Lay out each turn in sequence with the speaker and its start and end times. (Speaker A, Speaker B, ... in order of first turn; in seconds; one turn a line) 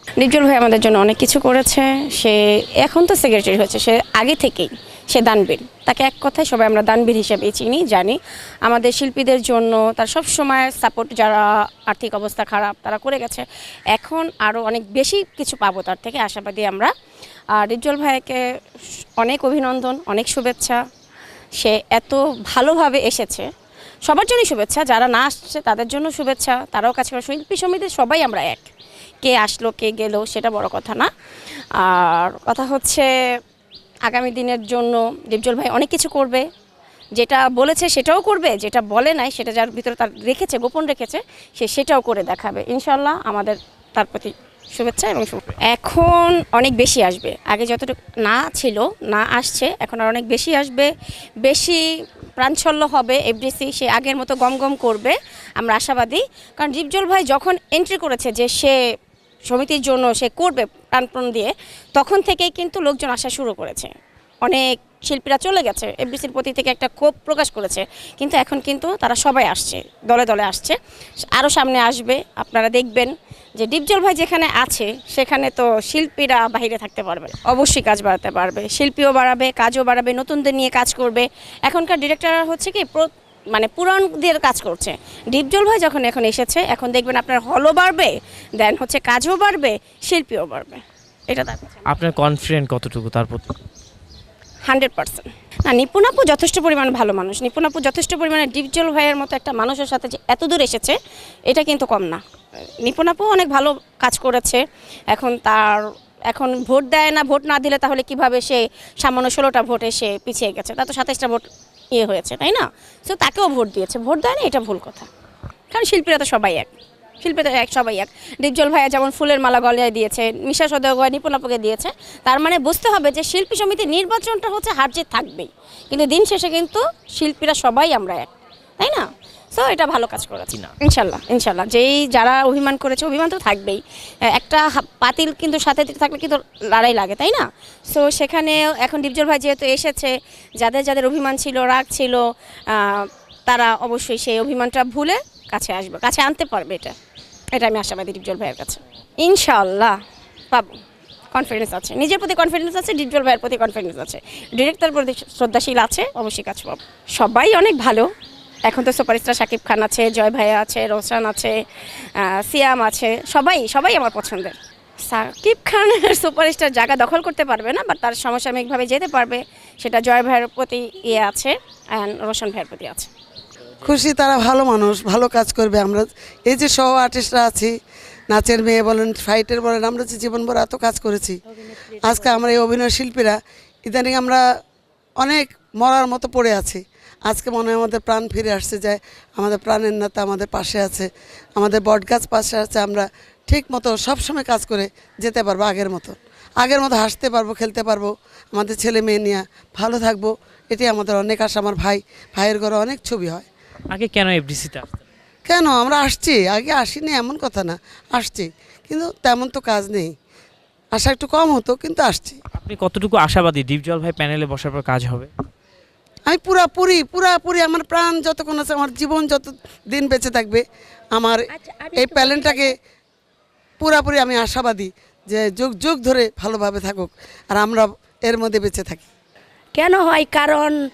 Speaker A: 0.2-16.9
Speaker A: 17.5-18.4
Speaker A: 19.2-20.8
Speaker A: 21.6-23.5
Speaker A: 24.1-28.7
Speaker A: 29.2-31.1
Speaker A: 31.8-33.1
Speaker A: 34.1-36.5
Speaker A: 37.2-50.9
Speaker A: 51.4-51.9
Speaker A: 52.4-58.8
Speaker A: 59.5-63.9
Speaker A: 64.5-91.8
Speaker B: 91.9-93.5
Speaker A: 94.7-102.2
Speaker A: 102.8-115.1
Speaker A: 115.7-146.9
Speaker A: 147.5-150.0
Speaker A: 150.5-150.8
Speaker A: 151.3-158.1
Speaker A: 158.7-161.6
Speaker A: 162.2-173.1
Speaker C: 173.8-177.8
Speaker C: 178.3-181.4
Speaker C: 182.0-184.4
Speaker C: 185.2-203.5
Speaker B: 203.9-205.0
Speaker C: 205.5-210.2
Speaker C: 210.9-212.4
Speaker B: 212.6-215.3
Speaker C: 216.3-220.6
Speaker C: 221.2-221.4
Speaker D: 221.5-222.6
Speaker C: 222.0-222.8
Speaker C: 223.8-229.1
Speaker D: 229.8-230.8